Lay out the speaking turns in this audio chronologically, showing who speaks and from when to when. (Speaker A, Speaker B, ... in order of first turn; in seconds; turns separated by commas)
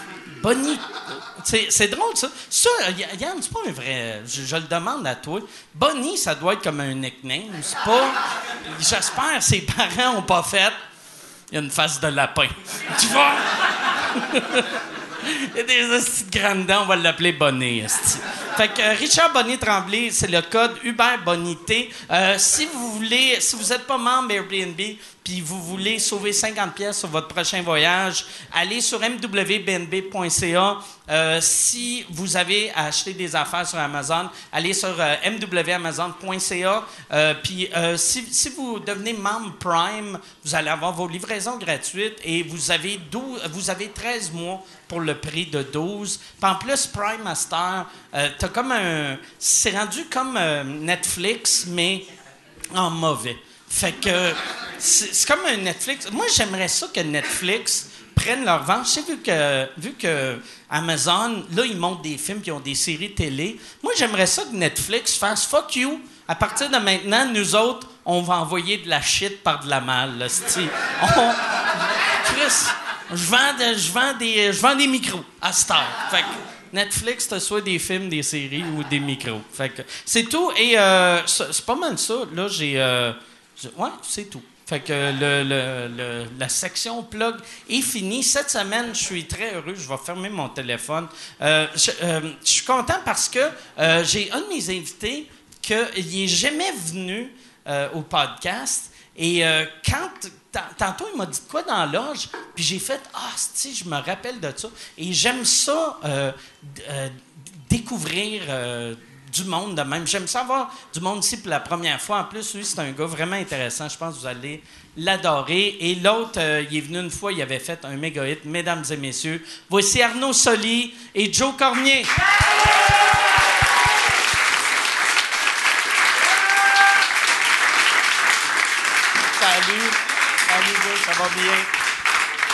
Speaker A: 0.3-8.2, Speaker A: 8.7-10.8, Speaker A: 11.5-52.0, Speaker A: 52.7-122.1, Speaker A: 129.3-131.7